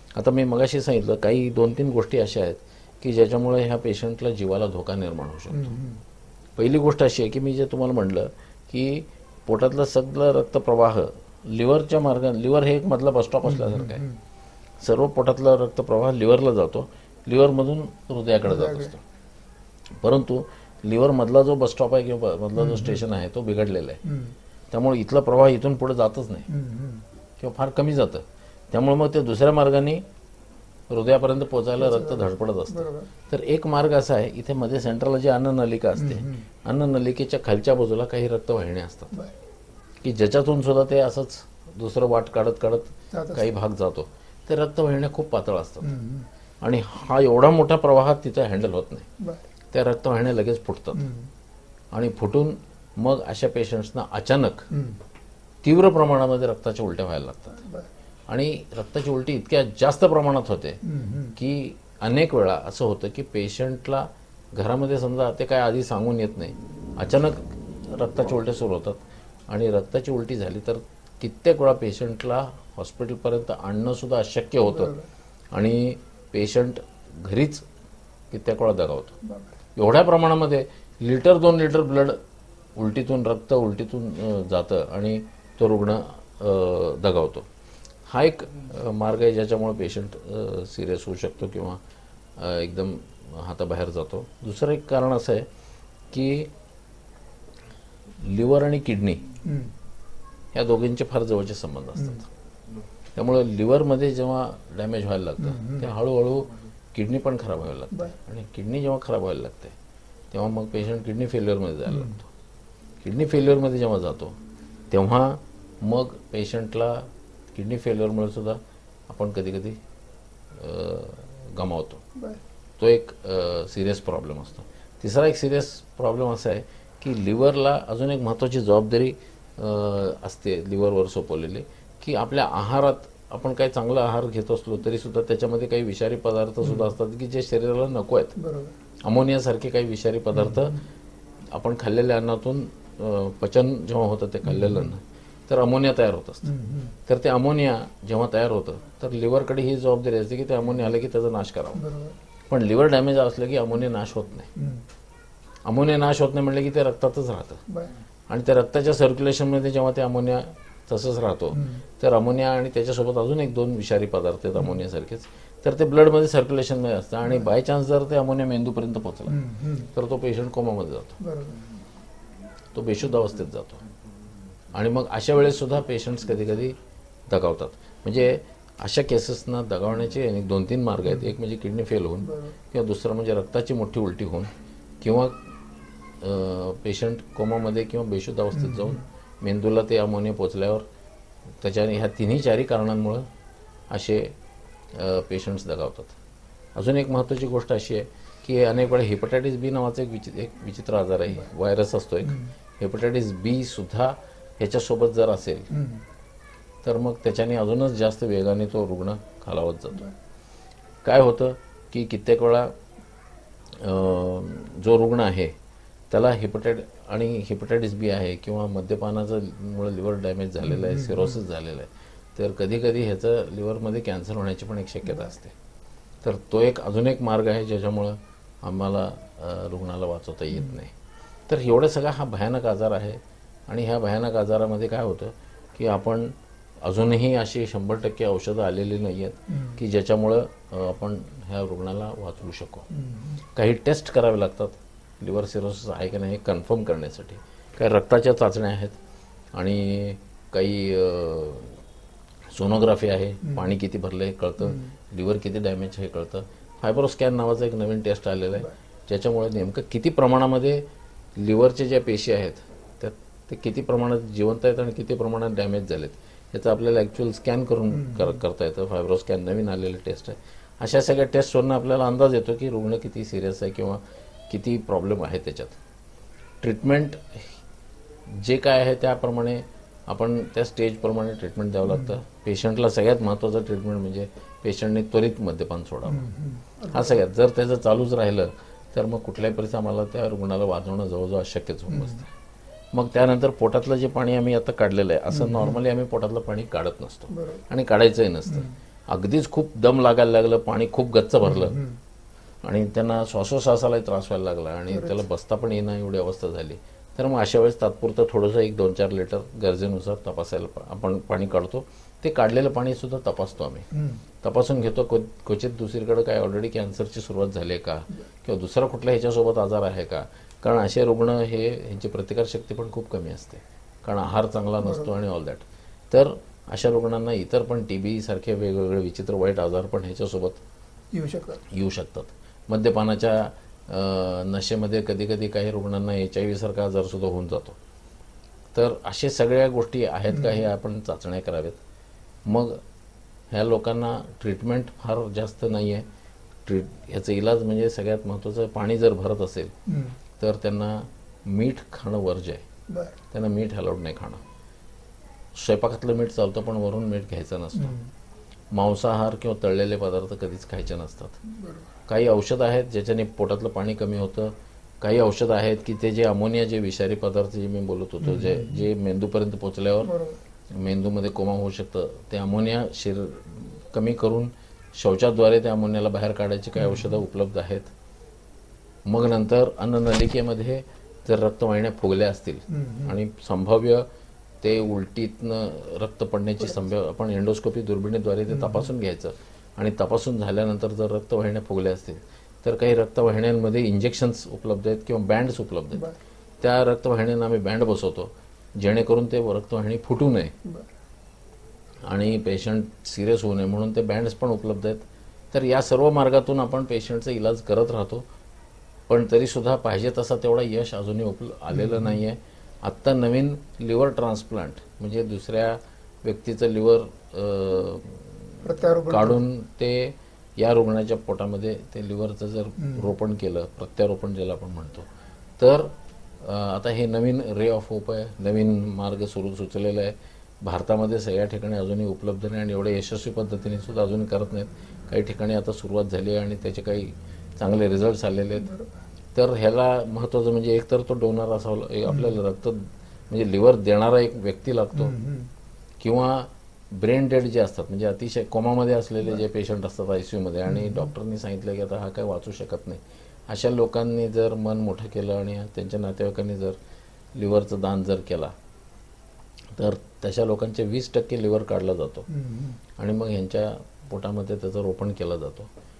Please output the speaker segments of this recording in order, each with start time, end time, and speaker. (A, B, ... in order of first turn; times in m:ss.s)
0:00.2-0:05.8 A
0:05.5-0:06.0 B
0:06.6-0:14.0 A
0:13.4-0:14.2 B
0:14.8-0:19.0 A
0:18.4-0:18.9 B
0:20.0-0:24.0 A
0:22.6-0:23.0 B
0:24.0-0:24.4 B
0:24.7-0:26.5 A
0:26.5-0:27.0 B
0:27.4-0:30.0 A
0:30.9-0:39.1 A
0:31.8-0:33.1 B
0:36.0-0:36.4 B
0:40.0-0:45.9 A
0:43.1-0:43.5 B
0:45.8-0:46.3 B
0:46.6-0:49.1 A
0:49.2-0:49.4 B
0:49.7-0:51.1 A
0:50.9-0:51.3 B
0:51.9-0:54.7 A
0:54.7-0:55.0 B
0:55.6-0:57.6 A
0:57.6-0:57.9 B
0:58.3-1:00.8 A
1:00.8-1:01.4 B
1:01.4-1:14.9 A
1:14.7-1:15.1 B
1:15.5-1:17.6 A
1:18.3-1:19.2 A
1:19.2-1:19.5 B
1:19.8-1:22.2 A
1:22.8-1:27.5 A
1:28.1-1:31.8 A
1:32.4-1:35.5 A
1:36.1-1:36.5 A
1:38.2-1:39.4 A
1:39.4-1:39.7 B
1:40.5-1:42.3 A
1:42.0-1:42.2 B
1:43.1-1:49.8 A
1:45.4-1:45.8 B
1:50.3-1:52.3 A
1:51.9-1:52.1 B
1:53.0-1:54.4 A
1:54.9-1:59.8 A
2:00.5-2:02.0 A
2:02.1-2:02.4 B
2:02.8-2:18.4 A
2:18.4-2:18.7 B
2:19.0-2:20.8 A
2:20.3-2:20.8 B
2:21.5-2:26.5 A
2:24.4-2:24.9 B
2:26.4-2:26.9 B
2:27.0-2:31.8 A
2:31.8-2:32.2 B
2:32.5-2:34.5 A
2:34.6-2:34.8 B
2:35.6-2:37.6 A
2:37.7-2:37.9 B
2:38.3-2:51.2 A
2:41.5-2:41.8 B
2:49.3-2:49.9 B
2:51.2-2:51.6 B
2:52.7-2:53.8 A
2:54.7-2:56.8 A
2:57.3-3:05.4 A
3:02.2-3:02.6 B
3:06.2-3:10.8 A
3:08.5-3:09.0 B
3:11.6-3:13.2 A
3:13.9-3:14.3 A
3:14.9-3:16.2 A
3:16.7-3:25.7 A
3:22.2-3:22.5 B
3:25.7-3:26.0 B
3:26.8-3:30.1 A
3:31.0-3:32.7 A
3:33.7-3:35.5 A
3:36.1-3:45.5 A
3:40.6-3:41.4 B
3:46.2-3:50.9 A
3:51.5-4:02.9 A
3:59.5-3:59.8 B
4:02.9-4:03.4 B
4:03.4-4:09.0 A
4:09.5-4:11.8 A
4:12.5-4:20.8 A
4:13.4-4:13.7 B
4:14.6-4:14.9 B
4:21.4-4:35.8 A
4:27.9-4:28.4 B
4:36.6-4:37.5 A
4:38.3-4:46.3 A
4:41.9-4:42.2 B
4:46.1-4:47.2 B
4:46.9-4:52.3 A
4:51.9-4:52.2 B
4:52.9-5:01.8 A
4:55.3-4:55.7 B
4:57.3-4:57.6 B
5:01.4-5:02.0 B
5:02.6-5:13.9 A
5:04.9-5:05.2 B
5:13.9-5:14.2 B
5:14.4-5:30.6 A
5:24.8-5:25.1 B
5:31.1-5:31.6 B
5:31.7-5:37.8 A
5:38.7-5:41.8 A
5:40.3-5:40.7 B
5:42.4-5:42.8 A
5:43.5-5:46.0 A
5:46.6-5:49.7 A
5:49.8-5:50.2 B
5:50.4-5:52.6 A
5:52.9-5:53.2 B
5:53.3-5:54.4 A
5:55.5-5:58.0 A
5:57.8-5:58.1 B
5:58.7-6:01.4 A
6:01.4-6:01.9 B
6:02.1-6:10.1 A
6:08.2-6:08.9 B
6:10.0-6:10.4 B
6:10.7-6:17.9 A
6:16.8-6:17.2 B
6:19.0-6:24.1 A
6:22.7-6:23.2 B
6:24.6-6:36.1 A
6:28.5-6:28.9 B
6:36.6-6:40.5 A
6:42.0-6:48.2 A
6:49.1-7:05.1 A
6:51.7-6:52.2 B
6:58.6-6:59.4 B
7:02.8-7:03.1 B
7:05.6-7:18.7 A
7:18.6-7:18.9 B
7:19.3-7:25.1 A
7:22.0-7:22.4 B
7:24.9-7:25.5 B
7:26.0-7:36.8 A
7:30.7-7:31.1 B
7:37.4-7:38.5 A
7:39.7-7:42.3 A
7:42.3-7:42.8 B
7:43.0-7:45.7 A